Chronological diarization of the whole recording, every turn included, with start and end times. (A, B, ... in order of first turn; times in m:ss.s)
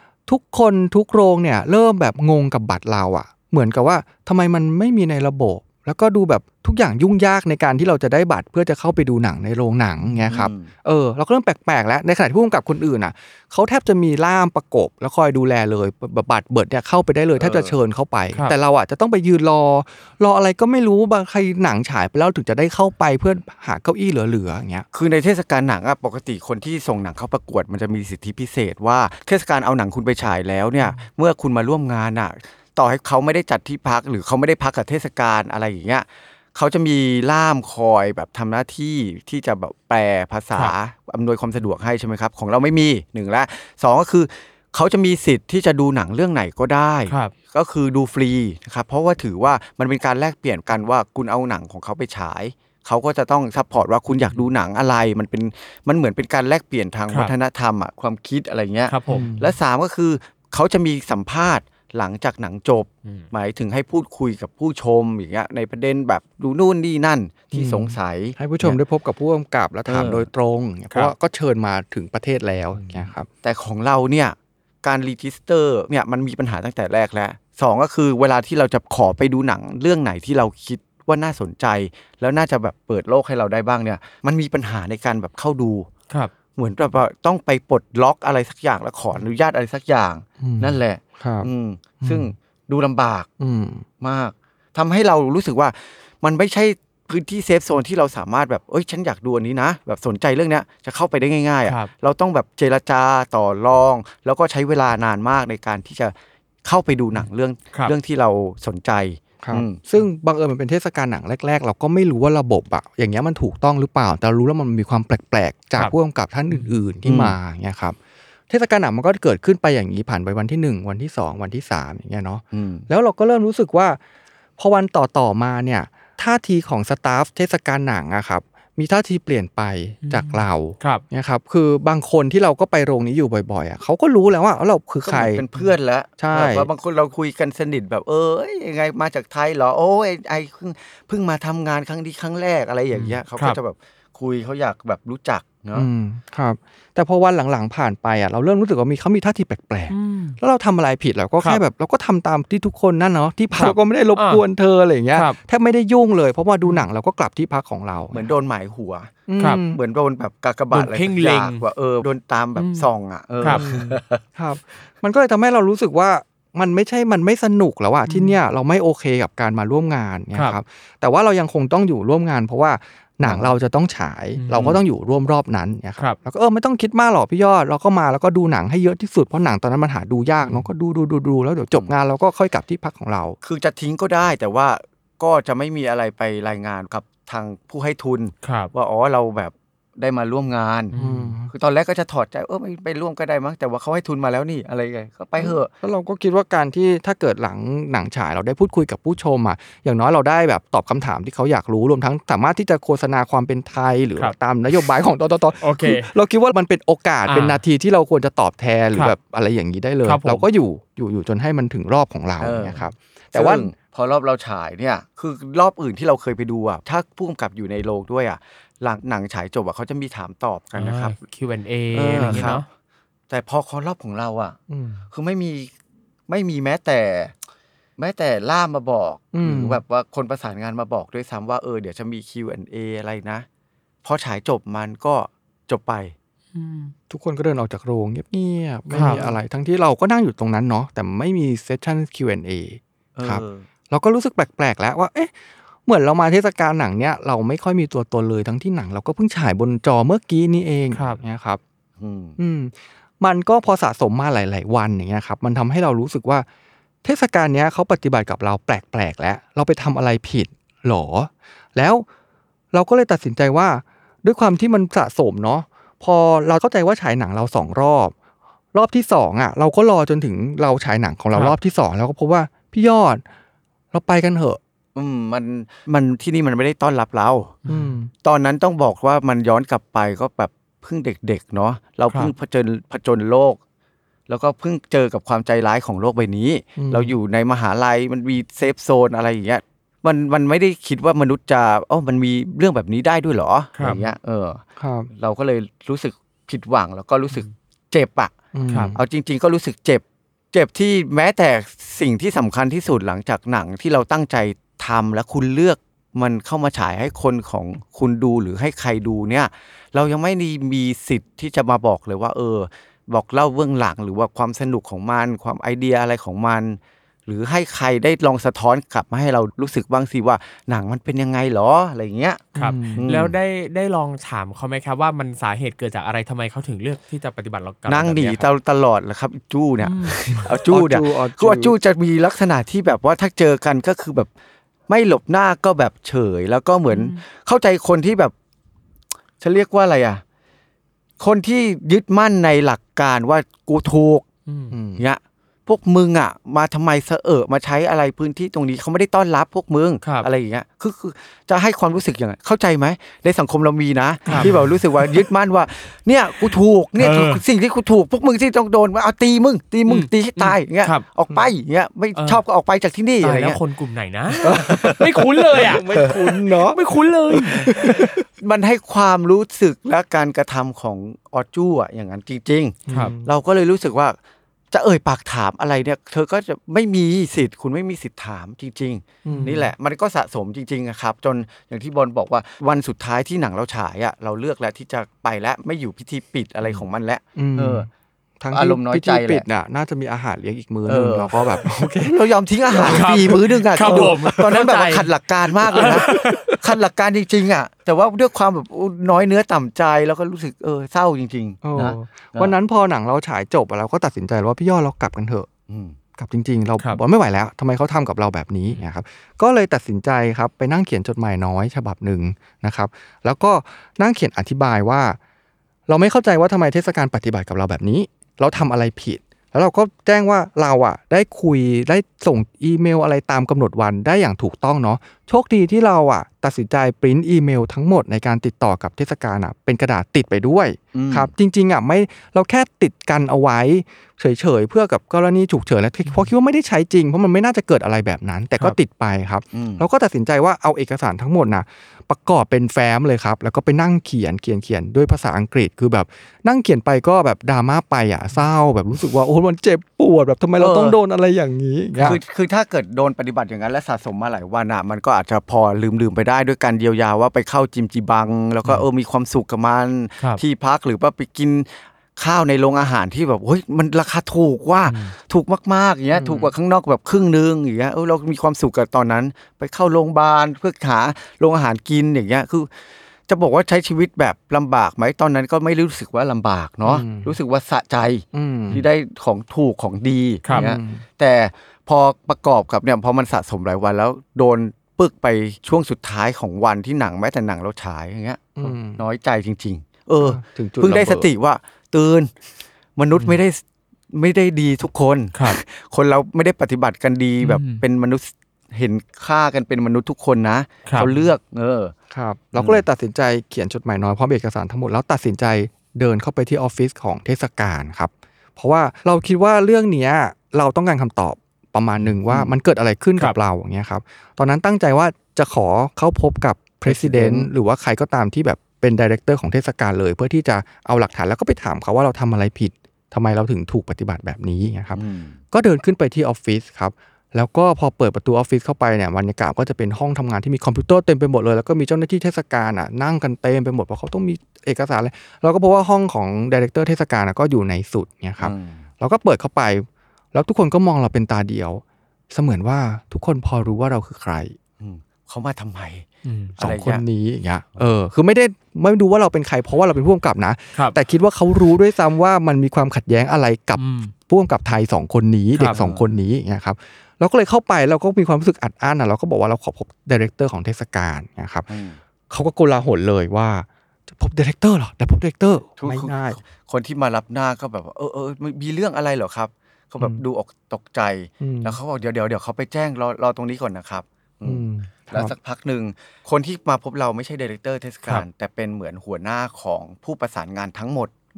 0:00.3-0:24.9 A
0:10.3-0:10.7 B
0:17.4-0:17.8 B
0:24.9-1:08.8 B
0:58.9-0:59.3 C
0:59.1-0:59.6 A
1:07.5-1:13.3 A
1:09.9-1:10.3 B
1:12.8-1:13.0 C
1:13.4-1:25.9 B
1:26.6-1:33.3 B
1:30.4-1:31.5 A
1:32.0-1:32.3 A
1:33.4-1:33.8 A
1:34.0-1:49.8 B
1:41.7-1:41.9 C
1:49.4-1:58.0 A
1:57.0-1:57.4 B
1:58.5-2:04.0 A
2:02.5-2:02.9 B
2:04.6-2:15.4 A
2:10.0-2:11.0 C
2:15.0-2:25.9 B
2:16.2-2:16.7 A
2:23.0-2:23.6 C
2:25.7-2:38.3 A
2:29.9-2:30.4 C
2:33.5-2:34.4 C
2:38.1-2:39.1 B
2:39.3-2:39.8 A
2:39.7-2:44.2 B
2:40.7-2:41.6 C
2:42.6-2:42.9 C
2:43.5-3:03.4 A
2:48.1-2:48.4 C
2:53.2-2:53.5 B
2:54.4-2:54.8 C
3:00.4-3:00.7 C
3:03.4-3:10.9 B
3:08.4-3:08.7 C
3:10.9-3:11.3 C
3:11.0-3:11.5 A
3:11.5-3:15.7 B
3:15.4-3:33.7 A
3:25.6-3:26.1 C
3:27.3-3:27.6 C
3:30.0-3:30.4 C
3:32.4-3:32.8 B
3:33.3-3:41.2 B
3:40.8-3:42.7 C
3:41.9-3:42.6 B
3:42.2-3:42.6 A
3:43.3-3:44.6 B
3:44.7-3:45.0 A
3:45.1-3:45.7 B
3:46.3-3:47.3 B
3:48.0-3:53.5 B
3:49.3-3:49.8 A
3:54.0-3:56.2 B
3:56.5-3:56.9 C
3:57.1-4:05.3 A
3:58.9-3:59.2 C
3:59.0-3:59.3 B
4:03.2-4:03.7 B
4:05.9-4:11.6 A
4:10.9-4:11.2 C
4:12.0-4:12.4 B
4:12.4-4:16.5 A
4:17.0-4:22.1 A
4:22.7-4:28.1 A
4:28.7-4:33.2 A
4:33.9-4:34.6 A
4:35.0-4:37.5 B
4:37.6-4:37.9 C
4:37.7-4:38.1 A
4:38.2-4:43.6 B
4:44.3-4:58.4 B
4:46.8-4:47.1 A
4:53.8-4:54.0 C
4:54.8-4:55.1 A
4:58.5-4:59.0 A
4:58.9-5:23.4 B
5:22.6-5:23.0 A
5:22.6-5:28.5 C
5:27.9-5:34.3 B
5:29.8-5:30.4 C
5:30.5-5:31.8 A
5:34.9-5:38.3 B
5:36.9-5:37.2 C
5:39.4-5:40.2 B
5:41.2-5:44.3 B
5:44.5-5:44.8 C
5:44.7-5:45.0 A
5:45.0-6:03.6 B
5:54.3-5:54.6 A
5:57.0-5:57.4 C
5:59.9-6:01.0 C
6:02.2-6:02.4 C
6:03.2-6:07.7 C
6:04.4-6:08.2 A
6:04.5-6:05.0 B
6:07.9-6:14.2 B
6:12.9-6:13.3 A
6:14.7-6:27.9 B
6:19.2-6:19.7 A
6:19.3-6:19.6 C
6:27.4-6:27.9 A
6:28.4-6:34.4 A
6:28.5-6:29.4 B
6:30.9-6:31.4 B
6:32.0-6:42.5 B
6:32.8-6:35.1 C
6:35.7-6:36.6 C
6:35.7-6:36.5 A
6:41.6-6:45.5 A
6:45.7-6:46.0 B
6:46.2-6:55.2 A
6:55.9-7:32.2 A
7:10.9-7:11.3 B
7:19.5-7:19.8 B
7:30.6-7:31.0 B
7:32.0-7:52.7 B
7:44.9-7:45.1 C
7:46.2-7:46.5 A
7:53.3-8:12.3 B
7:56.8-7:57.3 A
7:58.3-7:58.8 A
8:00.5-8:01.0 A
8:08.6-8:09.0 A
8:10.2-8:11.3 A
8:13.0-8:21.9 B
8:17.4-8:17.8 C
8:21.0-8:21.3 A
8:22.1-8:45.0 A
8:22.6-8:22.8 B
8:36.9-8:37.5 B
8:44.9-8:45.4 B
8:45.5-9:04.6 A
8:58.4-8:58.9 B
9:04.8-9:06.1 B
9:06.2-9:06.5 C
9:06.6-9:21.7 A
9:06.6-9:07.0 B
9:13.8-9:14.1 C
9:15.7-9:16.1 B
9:21.7-9:22.0 B
9:22.3-9:26.4 A
9:25.8-9:41.1 B
9:31.4-9:31.8 A
9:34.4-9:35.4 A